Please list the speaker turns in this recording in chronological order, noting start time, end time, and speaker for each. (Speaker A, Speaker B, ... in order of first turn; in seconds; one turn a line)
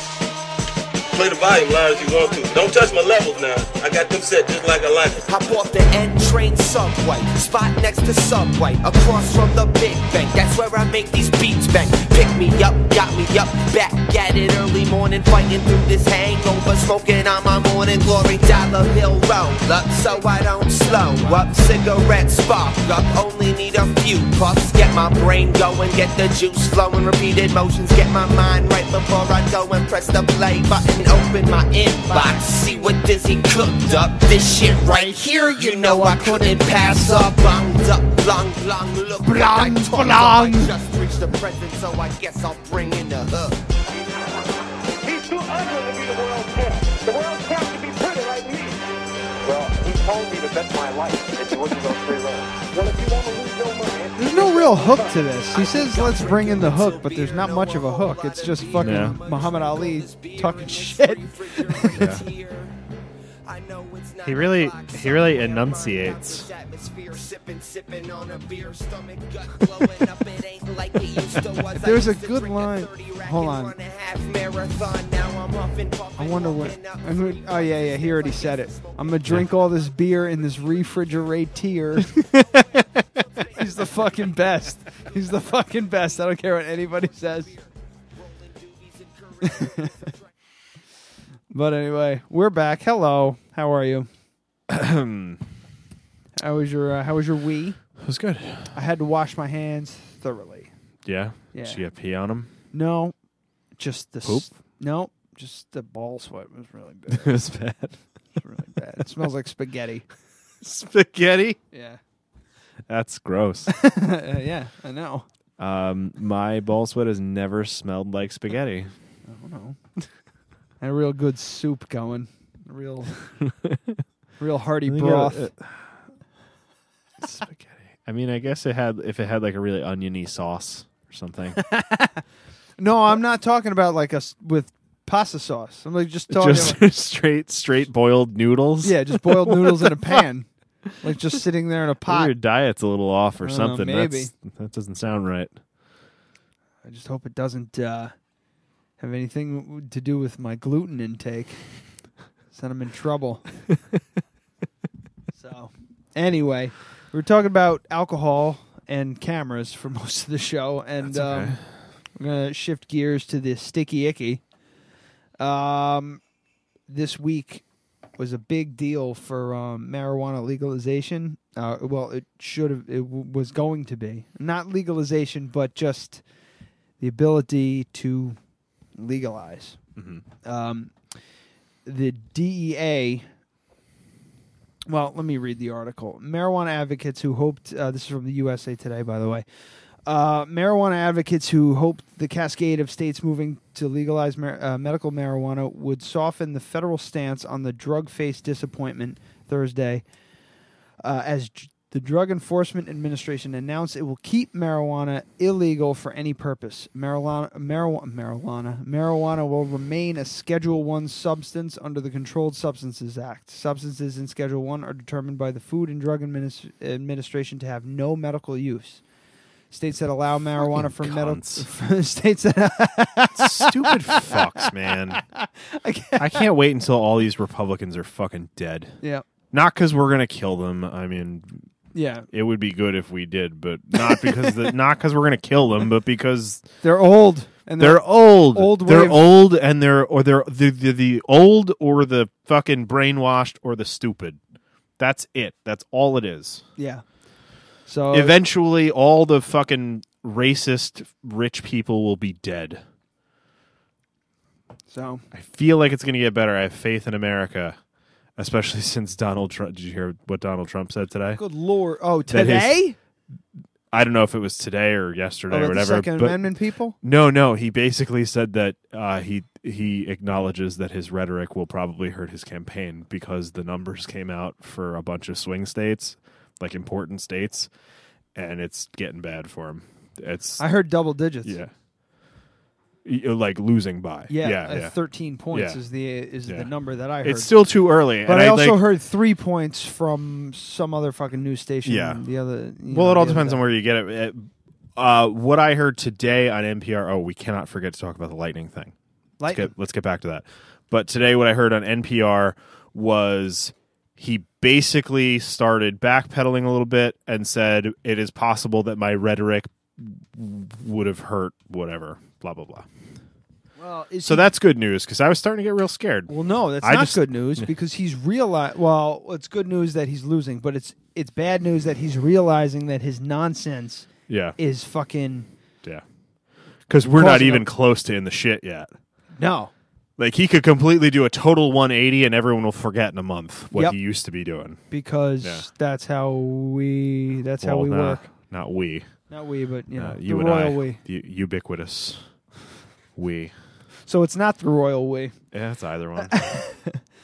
Speaker A: 1.1-5.3
Speaker B: 5.3-43.6
Speaker C: 21.0-21.4
Speaker C: 32.0-33.0
Speaker C: 34.7-37.4
Speaker C: 39.2-40.7
Speaker D: 45.0-55.3
Speaker C: 54.2-62.1
Speaker B: 55.5-62.8
Speaker E: 58.8-59.2
Speaker E: 62.0-62.2
Speaker B: 63.4-81.2
Speaker E: 64.2-66.5
Speaker C: 71.8-73.7
Speaker C: 76.2-82.2
Speaker E: 82.1-82.8
Speaker B: 82.5-85.7
Speaker C: 83.5-87.5
Speaker B: 87.0-90.2
Speaker C: 89.4-89.9
Speaker C: 91.5-94.1
Speaker E: 94.7-95.4
Speaker C: 96.4-97.8
Speaker E: 98.0-98.7
Speaker C: 98.7-100.7
Speaker E: 101.0-102.5
Speaker C: 101.5-101.8
Speaker C: 102.7-103.1
Speaker C: 103.8-107.3
Speaker E: 104.2-104.5
Speaker E: 107.1-108.0
Speaker C: 108.4-110.0
Speaker E: 110.6-111.6
Speaker C: 111.7-112.0
Speaker E: 112.9-113.7
Speaker C: 113.7-115.2
Speaker E: 115.6-118.9
Speaker C: 119.2-119.8
Speaker C: 120.8-123.1
Speaker E: 123.6-124.0
Speaker C: 124.4-125.5
Speaker E: 124.8-125.9
Speaker E: 127.2-131.6
Speaker C: 131.6-132.2
Speaker C: 132.8-136.8
Speaker E: 136.3-140.2
Speaker C: 138.8-140.5
Speaker C: 141.0-142.3
Speaker E: 142.0-145.5
Speaker C: 143.4-144.3
Speaker C: 146.8-148.1
Speaker C: 149.0-151.6
Speaker C: 152.5-153.4
Speaker C: 155.3-161.6
Speaker E: 161.0-161.6
Speaker C: 162.1-164.4
Speaker C: 165.4-166.2
Speaker C: 166.9-167.6
Speaker C: 168.2-176.2
Speaker C: 177.0-178.4
Speaker C: 179.0-179.8
Speaker E: 179.9-180.2
Speaker C: 180.4-181.0
Speaker C: 181.8-183.2
Speaker C: 184.9-189.4
Speaker C: 190.0-200.0
Speaker C: 201.0-219.0
Speaker C: 219.7-226.4
Speaker E: 220.6-221.7
Speaker E: 223.3-225.2
Speaker E: 226.2-229.0
Speaker E: 229.5-231.7
Speaker C: 231.9-232.3
Speaker E: 232.3-236.7
Speaker C: 233.9-234.7
Speaker C: 236.8-239.2
Speaker E: 237.8-244.4
Speaker E: 245.0-246.6
Speaker C: 246.8-247.0
Speaker C: 247.8-248.4
Speaker E: 248.1-252.8
Speaker C: 254.9-255.2
Speaker E: 255.3-257.8
Speaker E: 258.4-261.4
Speaker C: 261.4-263.0
Speaker E: 262.3-262.8
Speaker E: 263.9-266.5
Speaker C: 265.5-266.9
Speaker E: 267.0-277.7
Speaker E: 278.3-280.6
Speaker C: 280.6-281.6
Speaker E: 281.4-281.7
Speaker E: 283.0-285.0
Speaker C: 284.3-287.5
Speaker E: 285.5-285.8
Speaker E: 287.2-288.8
Speaker C: 288.2-293.6
Speaker E: 291.8-292.2
Speaker E: 292.9-298.9
Speaker C: 299.4-299.7
Speaker E: 299.5-312.9
Speaker C: 313.8-314.4
Speaker E: 314.2-317.7
Speaker C: 316.3-324.1
Speaker E: 324.3-324.6
Speaker C: 324.6-325.5
Speaker E: 326.9-328.9
Speaker C: 327.1-327.7
Speaker C: 329.4-329.7
Speaker E: 330.2-334.8
Speaker C: 333.7-334.0
Speaker C: 334.9-338.3
Speaker E: 335.4-335.7
Speaker E: 337.6-339.1
Speaker C: 339.3-341.0
Speaker E: 339.9-342.2
Speaker E: 343.1-343.5
Speaker C: 344.1-345.4
Speaker E: 345.5-346.5
Speaker C: 346.2-347.0